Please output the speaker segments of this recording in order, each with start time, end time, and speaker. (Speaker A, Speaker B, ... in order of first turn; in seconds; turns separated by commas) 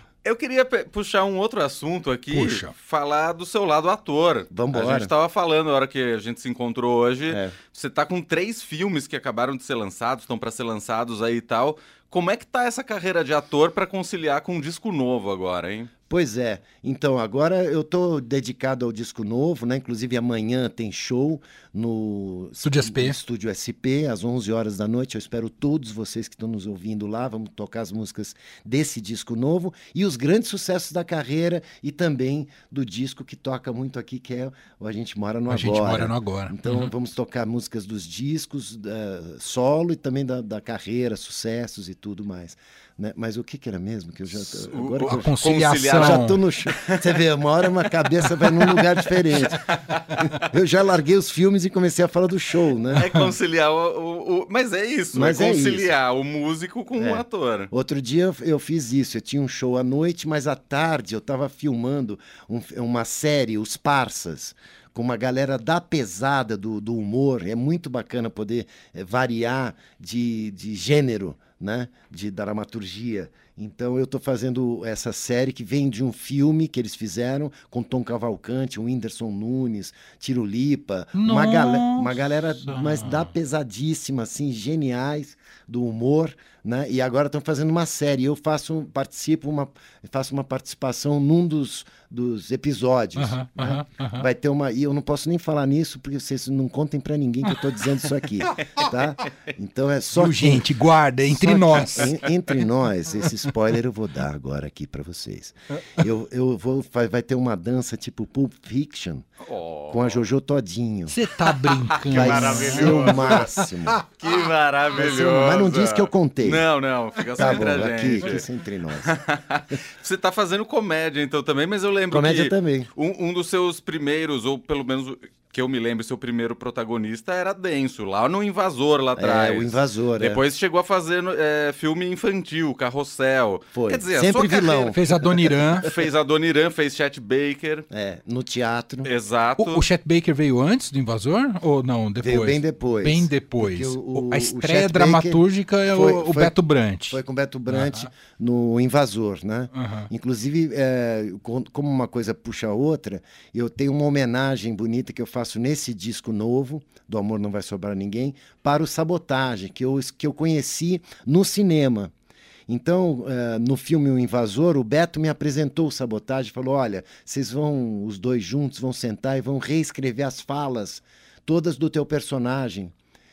Speaker A: 0.2-15.9, Speaker B: 2.3-2.7, Speaker C: 4.5-5.1, Speaker C: 7.3-7.5, Speaker C: 16.1-53.1, Speaker B: 22.6-23.2, Speaker B: 35.5-36.9, Speaker A: 44.5-47.2, Speaker B: 45.0-46.4, Speaker A: 49.5-50.5, Speaker A: 52.9-57.7, Speaker B: 53.0-53.2, Speaker C: 55.1-55.9, Speaker C: 57.0-100.7, Speaker B: 81.2-83.3, Speaker B: 93.2-94.3, Speaker B: 100.2-102.2, Speaker C: 101.3-109.3, Speaker A: 109.5-110.2, Speaker C: 109.9-111.1, Speaker B: 111.1-114.0, Speaker A: 111.9-113.5, Speaker C: 112.1-114.0, Speaker A: 114.1-118.5, Speaker C: 115.0-116.7, Speaker C: 117.3-119.1, Speaker A: 119.0-135.0, Speaker C: 122.1-122.9, Speaker C: 129.2-130.4, Speaker C: 133.7-135.1, Speaker B: 134.9-135.9, Speaker A: 135.8-137.9, Speaker C: 137.9-139.1, Speaker A: 139.0-139.8, Speaker B: 139.6-148.1, Speaker C: 142.2-146.5, Speaker C: 147.1-162.1, Speaker B: 149.7-150.1, Speaker C: 162.7-172.9